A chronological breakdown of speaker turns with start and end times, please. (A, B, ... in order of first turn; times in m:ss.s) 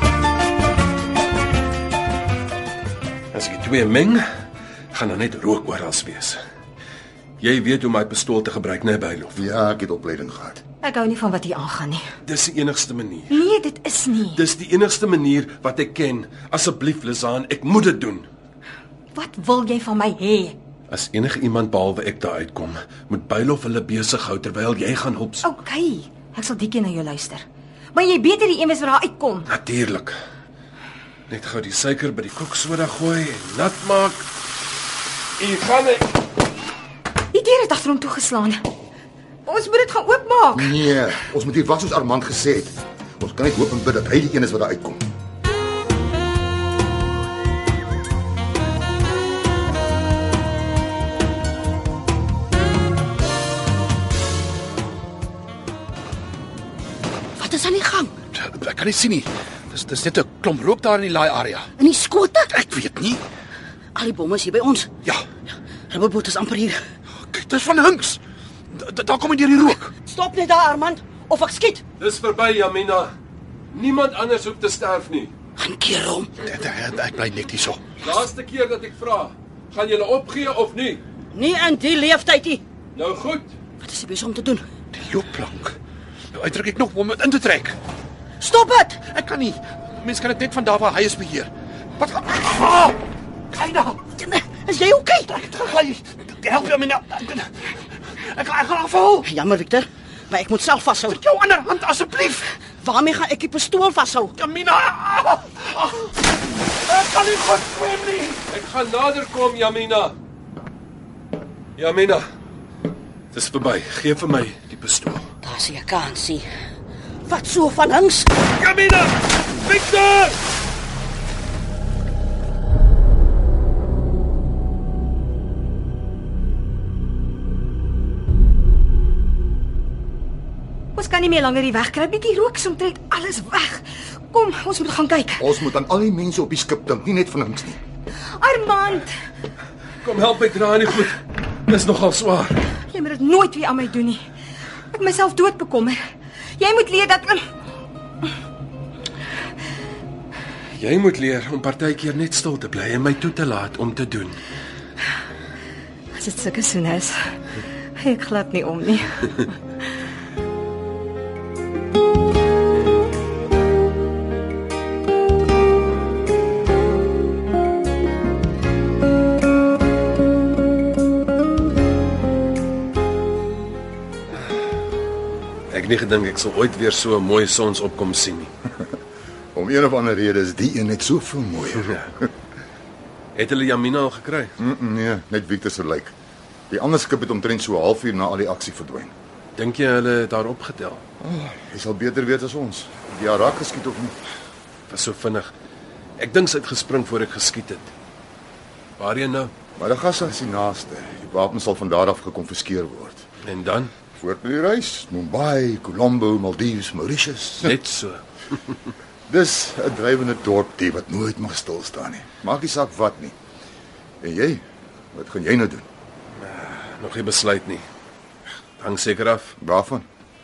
0:03.3-0:04.2 A
0:04.9-0:06.4 A
0:07.4-0:09.4 A
0:09.3-0:10.6 B
0:10.8-0:12.0 C
0:12.2-0:13.4 A
0:13.3-0:14.4 C
0:14.3-0:18.3 A
0:19.1-0:20.6 C
0:20.9-0:25.4 A
0:25.4-0:29.5 C
0:29.5-0:30.1 A
0:31.3-0:34.3 A
0:35.4-0:36.1 A
0:37.3-0:38.6 C
0:39.4-0:40.7 C
0:40.5-0:45.0 B
0:57.4-0:58.1 D
0:58.3-1:01.7 E
1:01.8-1:02.5 D
1:02.5-1:03.2 E
1:03.9-1:04.9 D
1:05.9-1:06.8 D
1:07.3-1:08.2 E
1:08.7-1:09.9 E
1:10.0-1:11.8 D
1:12.0-1:13.1 A
1:13.7-1:15.3 A
1:15.6-1:16.3 D
1:16.4-1:17.8 E
1:18.0-1:21.0 A
1:21.3-1:22.6 D
1:22.9-1:23.5 A
1:23.8-1:24.6 D
1:24.9-1:25.8 E
1:26.3-1:27.8 E
1:28.4-1:29.0 D
1:29.0-1:33.0 E
1:33.5-1:34.1 E
1:34.2-1:35.5 D
1:35.4-1:37.5 E
1:38.2-1:39.3 E
1:39.2-1:41.2 D
1:41.1-1:42.5 E
1:42.8-1:44.3 D
1:44.4-1:46.0 E
1:46.9-1:48.4 E
1:48.5-1:50.2 A
1:51.8-1:52.2 A
1:53.3-1:55.3 A
1:55.4-1:56.5 D
1:57.3-1:58.3 D
1:58.5-2:00.4 A
2:11.0-2:15.4 C
2:15.4-2:17.8 B
2:18.4-2:19.1 C
2:20.0-2:22.6 A
2:22.9-2:24.2 C
2:24.9-2:26.0 C
2:26.6-2:27.4 C
2:30.8-2:34.4 A
2:36.1-2:37.2 C
2:38.0-2:39.5 C
2:55.7-2:58.5 A
2:59.5-3:02.3 B
3:03.3-3:04.5 A
3:04.6-3:06.1 B
3:06.7-3:09.1 B
3:09.6-3:11.0 A
3:11.2-3:14.1 B
3:14.9-3:15.5 A
3:16.2-3:17.9 A
3:19.0-3:19.5 A
3:19.8-3:23.2 B
3:23.4-3:23.9 A
3:24.2-3:27.8 B
3:27.6-3:28.8 A
3:29.3-3:33.3 B
3:34.2-3:34.6 B
3:35.1-3:35.8 B
3:36.4-3:37.8 A
3:38.8-3:39.5 A
3:39.6-3:40.0 B